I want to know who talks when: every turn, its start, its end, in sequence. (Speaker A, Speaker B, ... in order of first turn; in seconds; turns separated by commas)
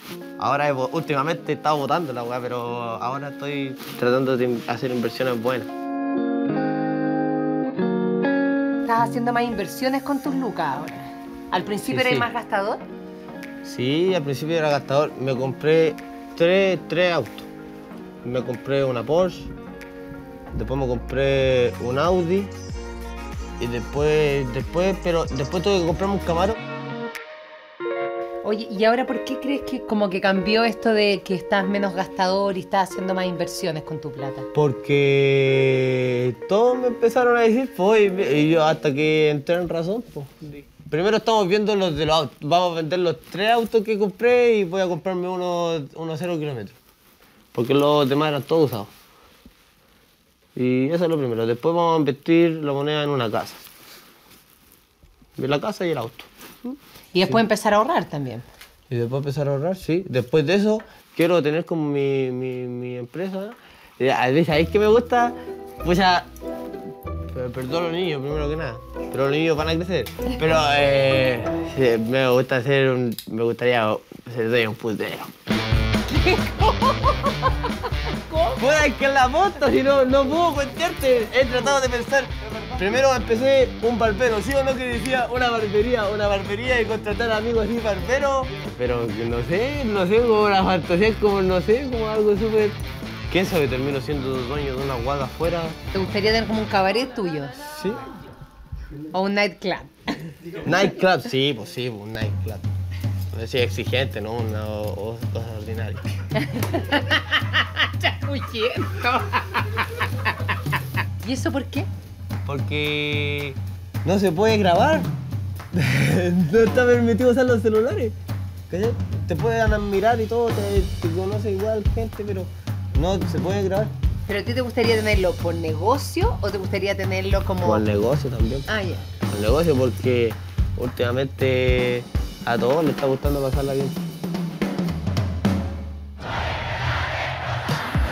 Speaker A: 0.4-5.7, Speaker B: 8.8-12.8, Speaker A: 11.8-12.3, Speaker A: 13.6-17.5, Speaker A: 18.2-19.5, Speaker A: 20.5-22.5, Speaker A: 23.6-26.6, Speaker B: 28.4-34.5, Speaker A: 34.5-46.8, Speaker A: 47.5-48.9, Speaker A: 50.5-53.6, Speaker A: 55.4-57.4, Speaker B: 57.1-58.4, Speaker A: 58.9-66.3, Speaker A: 67.3-75.3, Speaker B: 76.1-77.5, Speaker B: 78.0-78.6, Speaker A: 78.5-92.8, Speaker A: 93.3-95.8, Speaker B: 95.9-97.6, Speaker A: 97.7-98.1, Speaker B: 99.1-100.2, Speaker A: 100.6-102.7, Speaker A: 103.3-106.0, Speaker B: 106.4-110.6, Speaker B: 111.2-111.9, Speaker A: 112.4-115.1, Speaker A: 115.7-118.1, Speaker A: 118.7-123.9, Speaker B: 124.3-127.8, Speaker A: 127.6-128.7, Speaker B: 128.7-129.1, Speaker A: 129.2-134.0